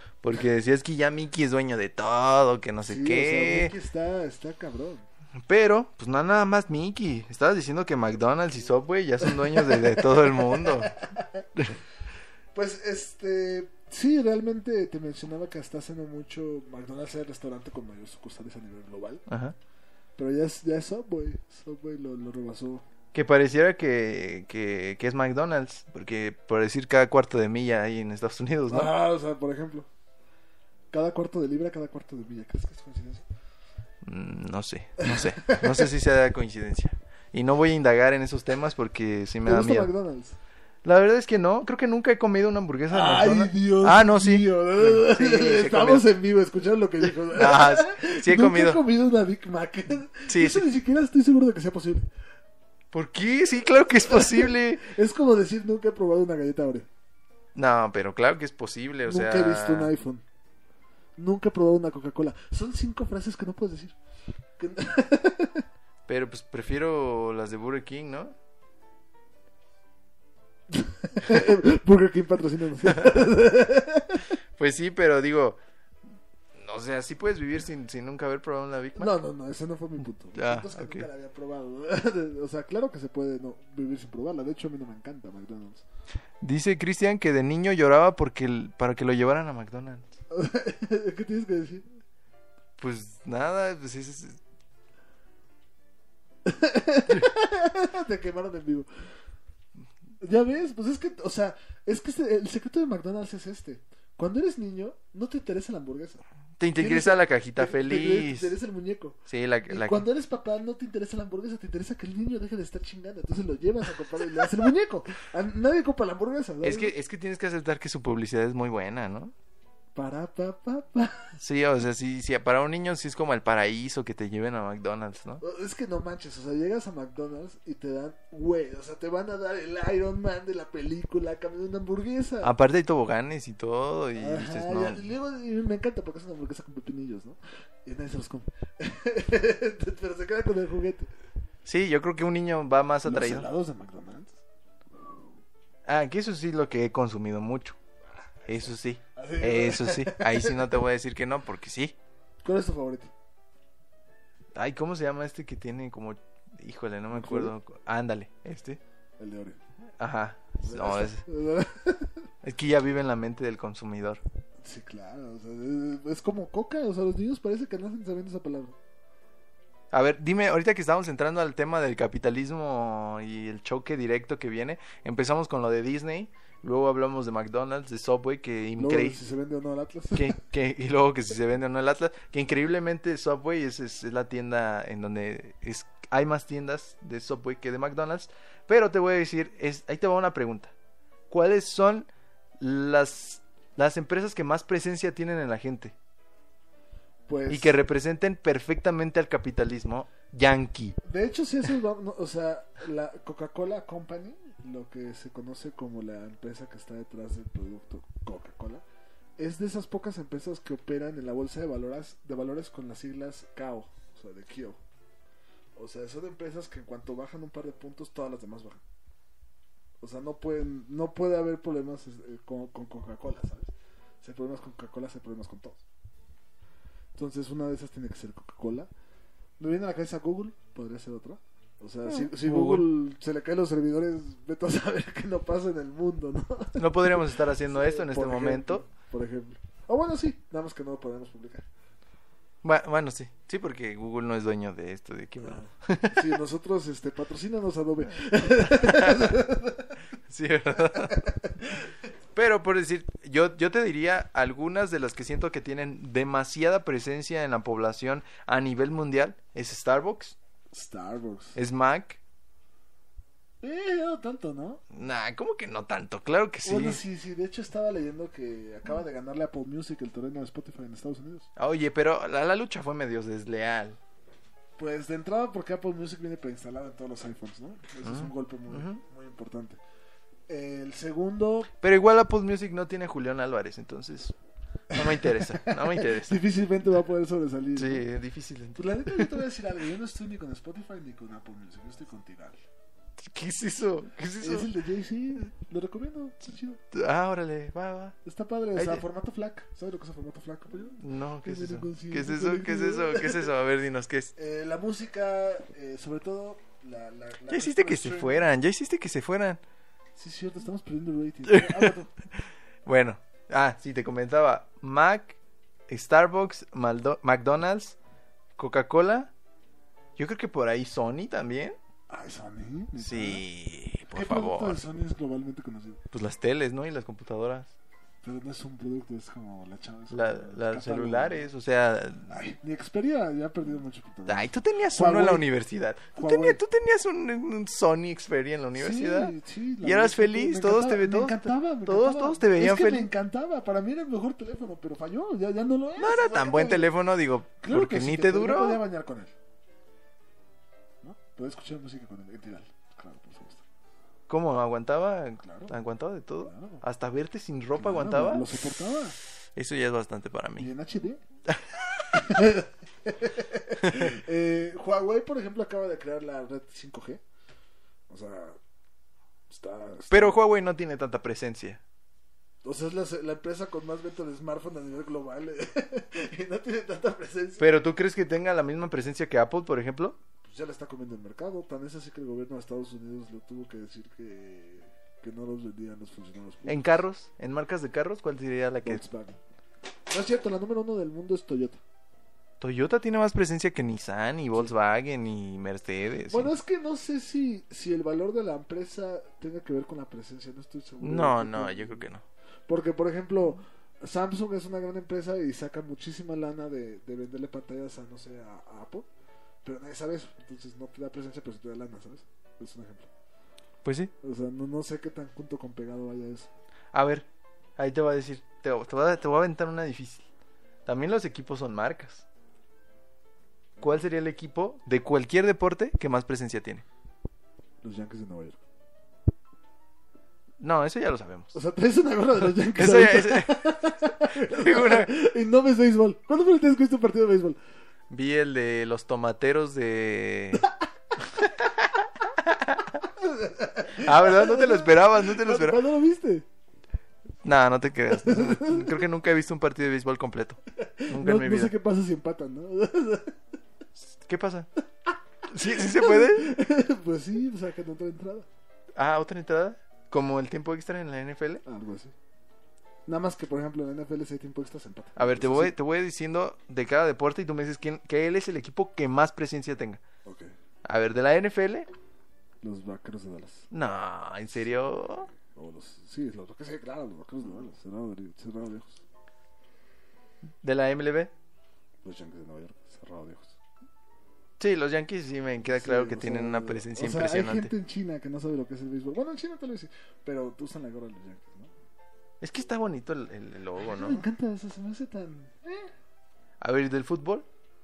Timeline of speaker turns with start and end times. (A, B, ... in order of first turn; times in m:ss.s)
0:00.2-0:03.7 A
0:02.8-0:05.0 B
0:05.5-0:10.9 A
0:09.2-0:11.4 B
0:12.5-0:19.2 B
0:19.3-0:19.6 A
0:20.2-0:22.8 B
0:23.1-0:28.9 A
0:28.7-0:29.9 B
0:30.9-0:33.2 B
0:34.0-0:39.9 A
0:35.0-0:35.9 B
0:39.4-0:40.4 B
0:40.8-0:46.1 A
0:42.9-0:52.1 B
0:47.2-0:48.8 A
0:50.3-0:50.7 A
0:52.9-0:54.8 A
0:54.0-0:56.9 B
0:57.6-0:59.9 A
0:59.0-1:00.2 B
1:01.2-1:04.0 B
1:04.6-1:05.6 B
1:06.1-1:08.3 A
1:10.7-1:14.4 B
1:12.8-1:13.3 A
1:14.6-1:15.6 A
1:16.6-1:19.1 A
1:19.0-1:25.8 B
1:20.3-1:21.1 A
1:26.4-1:30.1 A
1:30.3-1:31.9 B
1:32.8-1:34.4 A
1:36.4-1:38.9 B
1:40.2-1:46.2 B
1:46.6-1:48.5 A
1:46.8-1:56.9 B
1:49.3-1:50.1 A
1:56.6-1:59.3 A
1:59.9-2:01.2 B
2:01.4-2:05.4 A
2:05.4-2:12.5 B
2:12.4-2:15.1 A
2:14.1-2:21.1 B
2:21.6-2:23.5 A
2:23.0-2:24.4 B
2:25.8-2:27.8 A
2:28.4-2:30.6 B
2:28.5-2:32.0 A
2:32.4-2:33.1 B
2:34.5-2:38.8 A
2:37.1-2:37.5 B
2:39.2-2:39.6 B
2:40.0-2:41.2 A
2:40.6-2:42.2 B
2:42.4-2:44.2 A
2:44.6-2:48.8 B
2:49.9-2:59.2 A
2:58.8-3:00.4 B
3:00.1-3:10.7 A
3:11.3-3:12.1 A
3:12.6-3:15.9 A
3:17.3-3:17.8 B
3:17.5-3:21.0 A
3:21.0-3:28.8 B
3:29.4-3:34.8 B
3:35.7-3:38.8 B
3:40.0-3:45.8 B
3:47.1-3:48.9 B
3:49.6-4:01.6 B
3:52.0-3:52.9 A
3:56.8-3:58.8 A
4:02.6-4:06.3 A
4:05.4-4:10.0 B
4:08.6-4:09.4 A
4:10.3-4:11.3 A
4:10.9-4:11.9 B
4:12.3-4:20.4 A
4:20.7-4:21.6 B
4:21.6-4:22.2 A
4:23.6-4:24.8 B
4:24.9-4:27.0 A
4:26.6-4:31.5 B
4:31.6-4:34.0 A
4:34.8-4:39.8 B
4:38.0-4:39.0 A
4:40.5-4:41.7 B
4:41.8-4:44.3 A
4:44.9-4:46.4 A
4:44.9-4:48.0 B
4:47.8-4:49.4 A
4:48.8-4:52.6 B
4:53.2-4:54.7 A
4:54.4-4:56.8 B
4:56.9-4:58.2 A
4:58.2-5:03.5 B
4:58.7-4:59.0 A
5:01.0-5:04.3 A
5:04.4-5:08.4 B
5:07.5-5:09.6 A
5:10.2-5:12.1 B
5:11.5-5:11.9 A
5:12.8-5:15.4 A
5:15.9-5:18.0 A
5:18.6-5:19.3 A
5:20.2-5:21.8 A
5:22.1-5:23.4 B
5:23.0-5:24.8 A
5:24.1-5:26.0 B
5:26.1-5:27.7 A
5:28.2-5:31.5 B
5:30.1-5:32.3 A
5:32.3-5:35.5 B
5:34.3-5:43.1 A
5:36.2-5:36.6 B
5:38.7-5:46.9 B
5:46.0-5:48.8 A
5:47.6-5:49.3 B
5:51.0-5:53.6 B
5:54.3-5:58.6 A
5:55.4-5:55.7 B
5:56.4-5:56.8 B
5:57.8-5:59.2 B
5:59.5-6:00.7 A
6:00.6-6:01.2 B
6:01.5-6:02.2 A
6:02.1-6:07.2 B
6:03.8-6:04.2 A
6:08.1-6:08.6 B
6:09.5-6:10.4 B
6:10.1-6:11.8 A
6:12.6-6:17.7 B
6:17.6-6:20.2 A
6:20.4-6:26.8 B
6:26.6-6:29.0 A
6:28.8-6:29.4 B
6:30.1-6:31.8 B
6:32.6-6:36.5 A
6:36.3-6:42.0 B
6:41.0-6:42.2 A
6:42.7-6:49.1 B
6:49.6-6:53.1 B
6:53.8-6:54.1 A
6:54.2-6:56.5 B
6:56.9-7:00.3 A
7:00.8-7:02.2 A
7:03.8-7:06.8 A
7:07.8-7:08.6 B
7:10.6-7:11.6 A
7:11.5-7:17.6 B
7:12.4-7:15.1 A
7:18.1-7:20.7 A
7:21.2-7:23.0 A
7:23.1-7:26.4 B
7:23.9-7:25.8 A
7:27.4-7:31.7 A
7:28.1-7:29.0 B
7:30.8-7:33.4 B
7:34.0-7:34.7 A
7:35.5-7:36.5 A
7:35.6-7:38.5 B
7:39.0-7:41.6 A
7:41.6-7:42.1 B
7:43.0-7:45.7 B
7:45.2-7:50.0 A
7:50.2-7:50.5 B
7:50.8-7:51.9 A
7:52.6-7:53.7 B
7:53.7-7:55.3 A
7:55.3-7:59.0 B
8:00.6-8:01.3 A
8:02.0-8:03.6 B
8:04.6-8:07.7 A
8:05.6-8:11.7 B
8:12.4-8:14.2 A
8:13.8-8:15.9 B
8:16.6-8:17.5 A